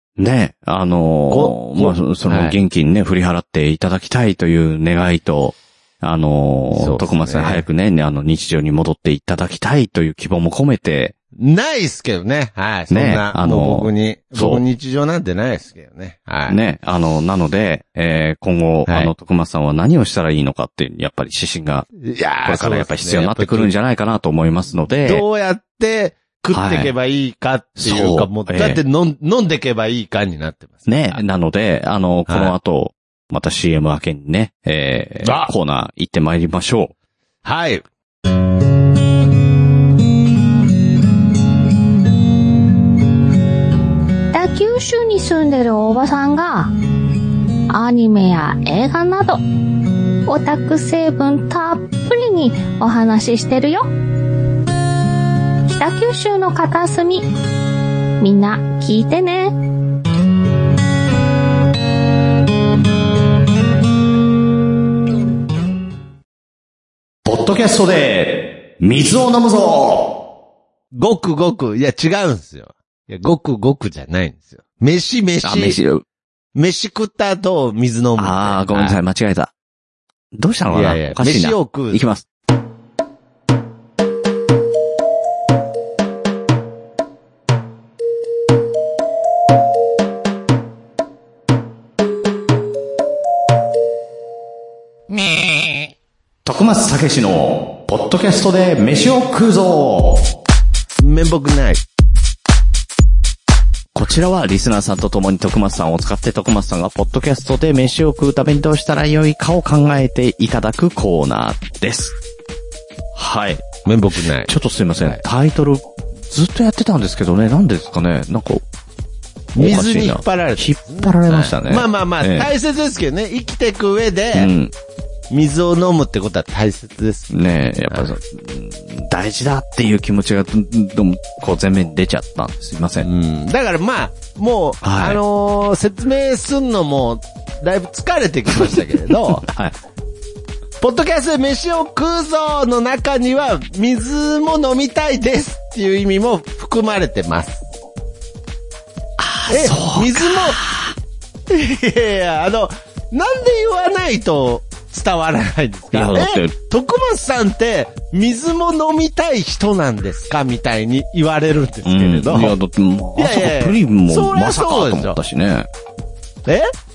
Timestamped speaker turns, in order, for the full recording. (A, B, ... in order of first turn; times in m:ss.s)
0:00.2-0:11.2 A
0:01.3-0:02.6 B
0:06.7-0:07.6 B
0:11.4-0:16.6 B
0:12.9-0:14.6 A
0:16.5-0:21.9 A
0:18.9-0:19.1 B
0:22.0-0:23.7 B
0:22.4-0:25.2 A
0:25.0-0:31.2 B
0:26.5-0:26.9 A
0:27.8-0:28.8 A
0:30.9-0:36.9 A
0:32.3-0:32.6 B
0:35.2-0:35.5 B
0:37.4-0:37.8 B
0:44.3-0:46.8 C
0:47.7-0:49.4 C
0:50.3-0:53.9 C
0:55.7-0:57.3 C
0:58.2-0:59.6 C
1:07.2-1:10.2 A
1:10.9-1:15.8 B
1:15.4-1:16.0 A
1:16.6-1:19.0 B
1:18.2-1:19.5 A
1:20.3-1:22.2 A
1:20.7-1:22.0 B
1:35.1-1:35.9 B
1:36.4-1:40.3 A
1:41.0-1:41.8 B
1:44.0-1:52.2 A
1:53.2-1:58.6 A
1:53.8-1:55.2 B
1:59.6-2:04.5 B
1:59.6-2:02.5 A
2:04.3-2:04.7 A
2:05.3-2:07.3 B
2:07.3-2:13.1 A
2:13.0-2:19.5 B
2:14.8-2:15.2 A
2:19.4-2:19.8 A
2:20.8-2:27.6 B
2:29.2-2:30.9 A
2:29.5-2:30.6 B
2:31.5-2:42.6 B
2:35.9-2:36.5 A
2:41.8-2:45.7 A
2:43.2-2:45.2 B
2:46.5-2:46.7 B